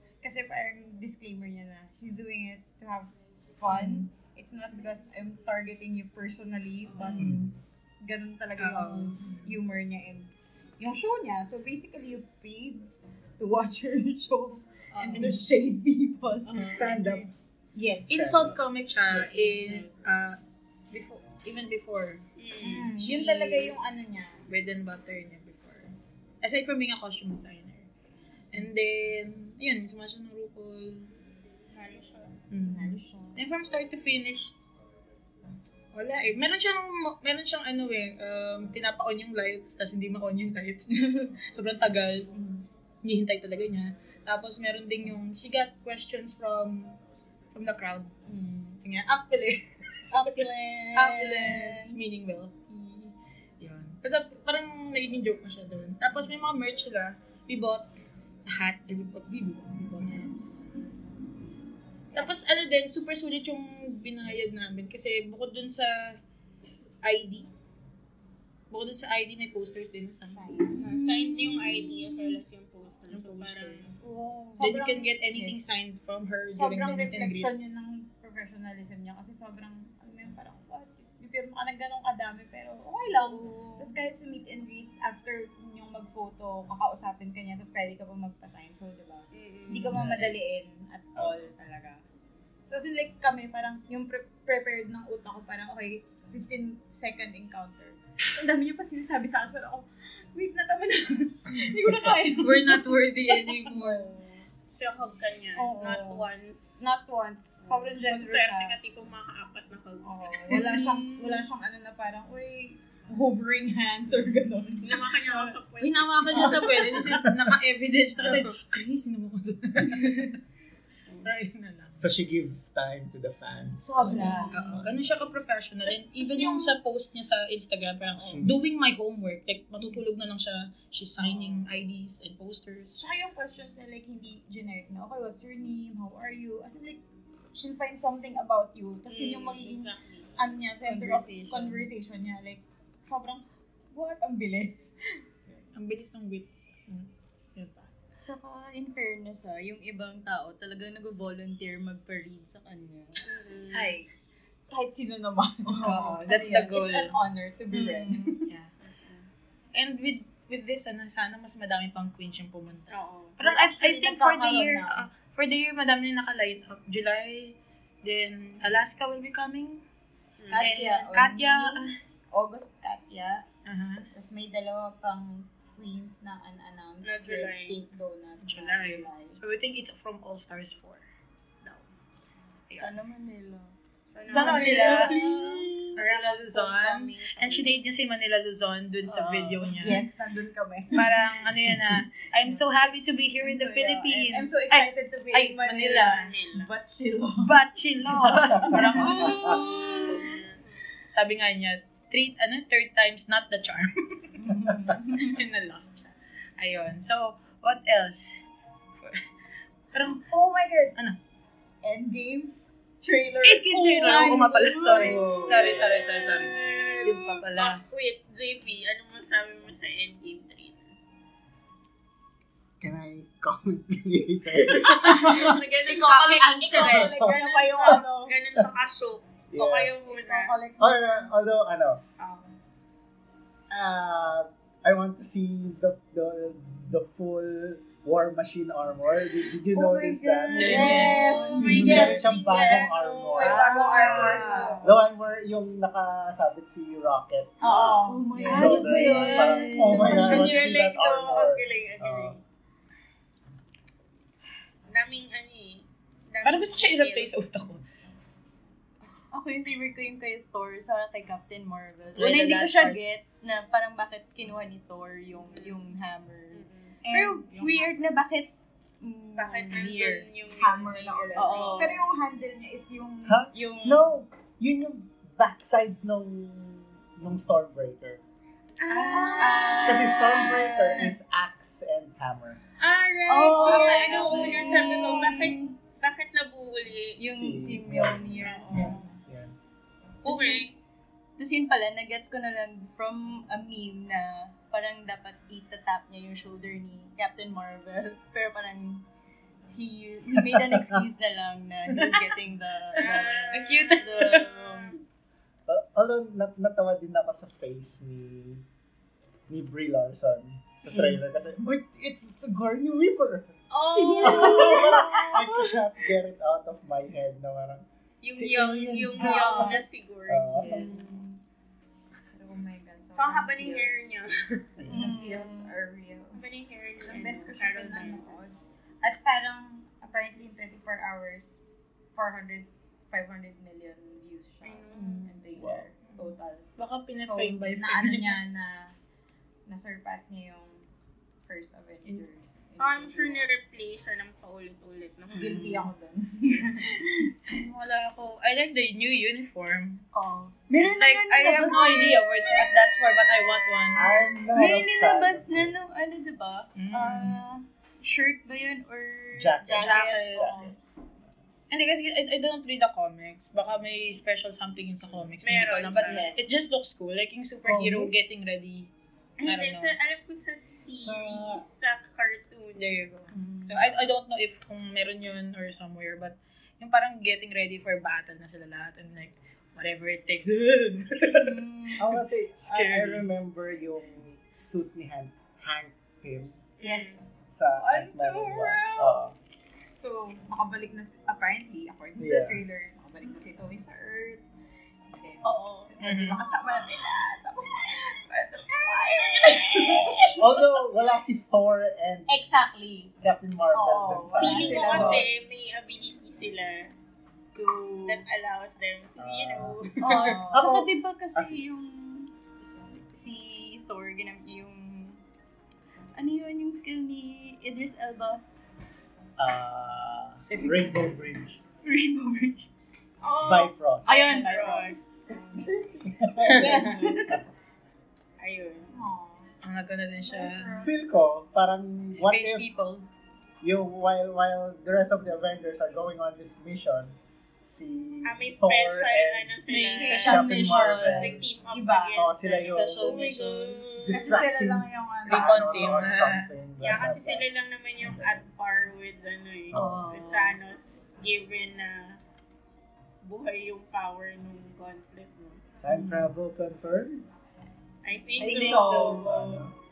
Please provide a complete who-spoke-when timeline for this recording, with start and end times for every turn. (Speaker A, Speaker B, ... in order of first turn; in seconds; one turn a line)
Speaker A: 0.2-12.9
Speaker B: 3.7-4.0
Speaker C: 7.0-7.3
Speaker B: 7.0-7.4
Speaker D: 7.2-7.5
Speaker B: 8.6-9.5
Speaker A: 13.4-18.2
Speaker B: 14.9-15.5
Speaker D: 16.6-17.3
Speaker B: 18.1-20.4
Speaker D: 18.1-18.6
Speaker A: 19.1-19.9
Speaker B: 20.9-22.2
Speaker E: 22.4-22.9
Speaker A: 22.6-24.4
Speaker B: 22.9-23.8
Speaker B: 24.5-27.9
Speaker B: 28.5-31.1
Speaker E: 31.7-32.3
Speaker B: 32.5-34.6
Speaker A: 32.6-33.4
Speaker B: 35.9-42.3
Speaker C: 42.3-42.6
Speaker B: 43.0-47.0
Speaker B: 47.5-48.1
Speaker C: 48.2-48.8
Speaker B: 48.8-49.6
Speaker C: 50.1-52.0
Speaker B: 50.1-60.7
Speaker B: 62.1-66.2
Speaker B: 67.0-67.5
Speaker B: 68.7-70.5
Speaker A: 70.3-70.8
Speaker E: 70.8-73.9
Speaker B: 71.5-71.7
Speaker B: 73.1-73.9
Speaker A: 74.0-75.6
Speaker B: 74.6-77.5
Speaker A: 76.5-92.0
Speaker C: 83.2-83.9
Speaker E: 89.3-90.0
Speaker D: 89.9-90.6
Speaker A: 92.7-104.1
Speaker B: 102.3-104.1
Speaker E: 104.2-106.8
Speaker A: 105.5-108.8
Speaker E: 107.6-110.7
Speaker A: 110.0-115.6
Speaker B: 110.5-111.5
Speaker E: 114.8-116.8
Speaker B: 115.8-120.4
Speaker A: 116.3-117.2
Speaker E: 118.2-118.5
Speaker B: 121.2-122.0
Speaker D: 122.0-125.3
Speaker A: 123.8-124.8
Speaker C: 124.0-124.8
Speaker B: 124.5-133.0
Speaker A: 125.9-126.8
Speaker D: 128.3-128.6
Speaker A: 131.2-131.6
Speaker A: 132.9-137.0
Speaker A: 137.5-144.9
Speaker E: 139.1-140.6
Speaker C: 140.8-141.9
Speaker B: 145.7-147.9
Speaker C: 148.2-153.2
Speaker E: 153.2-154.0
Speaker A: 153.7-154.1
Speaker A: 154.7-158.4
Speaker B: 155.8-157.2
Speaker C: 157.7-158.4
Speaker B: 158.5-158.7
Speaker E: 158.8-159.3
Speaker B: 159.7-169.8
Speaker E: 162.9-163.4
Speaker A: 163.4-165.1
Speaker E: 170.4-170.8
Speaker A: 170.5-173.4
Speaker B: 170.5-171.9
Speaker B: 173.6-174.1
Speaker A: 174.1-179.4
Speaker E: 177.0-177.8
Speaker B: 178.4-181.0
Speaker C: 182.7-183.7
Speaker E: 184.1-187.7
Speaker A: 184.3-185.9
Speaker B: 184.3-190.0
Speaker C: 189.1-190.0
Speaker A: 189.8-191.4
Speaker B: 190.9-196.2
Speaker A: 193.4-197.6
Speaker E: 195.8-196.7
Speaker B: 197.4-200.3
Speaker A: 198.2-200.3
Speaker D: 198.4-198.7
Speaker D: 199.2-199.6
Speaker E: 200.1-200.6
Speaker B: 201.1-208.4
Speaker C: 204.4-205.4
Speaker B: 209.0-209.2
Speaker B: 209.9-210.3
Speaker A: 210.2-210.9
Speaker A: 211.8-215.6
Speaker B: 213.4-217.8
Speaker C: 213.9-214.7
Speaker E: 214.8-220.9
Speaker D: 214.9-215.9
Speaker D: 222.8-225.6
Speaker B: 224.7-227.1
Speaker E: 224.9-230.6
Speaker A: 225.1-228.3
Speaker D: 226.8-227.4
Speaker D: 229.5-229.9
Speaker A: 230.1-231.3
Speaker D: 230.8-232.0
Speaker E: 232.2-232.5
Speaker D: 233.7-243.6
Speaker C: 239.7-242.1
Speaker A: 240.5-244.9
Speaker B: 240.6-241.4
Speaker E: 240.6-244.8
Speaker C: 243.7-244.8
Speaker B: 243.9-244.7
Speaker D: 244.8-252.4
Speaker A: 247.6-249.3
Speaker C: 247.6-250.5
Speaker B: 248.5-250.6
Speaker E: 250.0-252.4
Speaker E: 254.9-257.3
Speaker B: 256.4-257.8
Speaker C: 259.3-270.3
Speaker B: 262.1-263.0
Speaker E: 265.5-265.8
Speaker E: 266.5-267.0
Speaker A: 267.0-267.9
Speaker E: 269.4-272.0
Speaker A: 270.5-273.5
Speaker C: 271.3-272.0
Speaker D: 273.2-278.2
Speaker C: 273.5-274.1
Speaker E: 278.8-280.6
Speaker C: 278.9-281.1
Speaker A: 279.1-280.5
Speaker D: 279.8-282.6
Speaker E: 282.8-287.3
Speaker C: 283.3-285.7
Speaker B: 283.6-285.0
Speaker C: 287.2-289.1
Speaker D: 287.3-289.5
Speaker E: 288.4-289.0
Speaker E: 290.2-290.8
Speaker C: 290.2-290.6
Speaker C: 291.4-299.0
Speaker C: 299.7-304.9
Speaker D: 300.3-301.0
Speaker B: 301.9-302.4
Speaker B: 302.9-304.4
Speaker E: 302.9-305.0
Speaker D: 305.7-308.6
Speaker D: 309.5-313.5
Speaker E: 313.7-315.5
Speaker C: 313.9-315.0
Speaker A: 314.1-315.3
Speaker D: 314.2-320.9
Speaker E: 318.2-320.7
Speaker A: 319.1-319.8
Speaker C: 319.4-319.8
Speaker A: 320.6-321.1
Speaker C: 320.6-321.4
Speaker A: 322.3-324.0
Speaker E: 323.1-324.6
Speaker D: 324.8-325.2
Speaker A: 324.9-326.4
Speaker C: 324.9-325.7
Speaker E: 326.3-328.5
Speaker A: 327.0-331.6
Speaker A: 332.1-338.9
Speaker E: 334.6-335.2
Speaker C: 334.9-335.4
Speaker D: 335.5-335.9
Speaker B: 336.8-338.4
Speaker A: 339.6-340.9
Speaker A: 341.4-343.5
Speaker E: 342.8-345.6
Speaker C: 345.3-345.9
Speaker A: 345.3-347.3
Speaker B: 347.5-350.0
Speaker C: 350.1-352.4
Speaker B: 350.8-354.1
Speaker D: 353.9-355.7
Speaker C: 354.5-360.7
Speaker B: 356.7-357.4
Speaker D: 359.4-360.7
Speaker B: 359.8-360.7
Speaker B: 361.7-368.9
Speaker E: 365.4-366.3
Speaker A: 365.9-366.5
Speaker D: 367.6-368.2
Speaker E: 369.4-373.2
Speaker B: 369.4-369.9
Speaker D: 370.9-371.6
Speaker B: 372.8-381.6
Speaker C: 373.3-373.9
Speaker C: 381.3-382.1
Speaker D: 382.0-386.6
Speaker B: 382.6-383.3
Speaker E: 386.8-387.2
Speaker A: 386.8-389.2
Speaker D: 387.5-389.3
Speaker A: 390.0-394.4
Speaker D: 392.2-392.6
Speaker A: 395.1-400.8
Speaker C: 395.4-396.0
Speaker B: 396.0-396.4
Speaker E: 399.1-400.1
Speaker D: 400.4-402.3
Speaker A: 402.3-403.1
Speaker D: 403.2-405.3
Speaker A: 403.7-405.3
Speaker E: 404.4-406.9
Speaker C: 407.5-408.2
Speaker E: 408.1-410.2
Speaker D: 409.2-409.9
Speaker C: 410.0-415.2
Speaker A: 410.1-410.7
Speaker D: 410.5-411.6
Speaker C: 416.1-418.4
Speaker D: 419.4-421.6
Speaker B: 420.4-420.8
Speaker C: 421.8-422.7
Speaker E: 423.2-425.1
Speaker D: 423.4-424.1
Speaker C: 424.1-425.0
Speaker A: 424.1-425.6
Speaker D: 425.3-427.4
Speaker E: 426.4-427.2
Speaker A: 426.5-427.4
Speaker E: 428.4-428.9
Speaker A: 428.9-429.5
Speaker B: 429.6-430.8
Speaker A: 430.2-431.0
Speaker D: 430.8-432.7
Speaker B: 432.1-433.1
Speaker D: 433.6-441.5
Speaker E: 438.2-444.4
Speaker C: 439.7-441.3
Speaker A: 441.7-442.6
Speaker D: 442.1-443.2
Speaker C: 442.6-443.9
Speaker D: 444.0-447.4
Speaker A: 444.1-446.2
Speaker B: 445.2-446.5
Speaker E: 446.8-452.2
Speaker D: 448.0-448.4
Speaker D: 449.7-450.1
Speaker C: 449.7-450.6
Speaker E: 453.2-455.6
Speaker D: 455.8-457.2
Speaker C: 455.9-456.3
Speaker E: 458.0-459.3
Speaker A: 458.4-459.4
Speaker C: 458.4-459.6
Speaker D: 459.0-459.7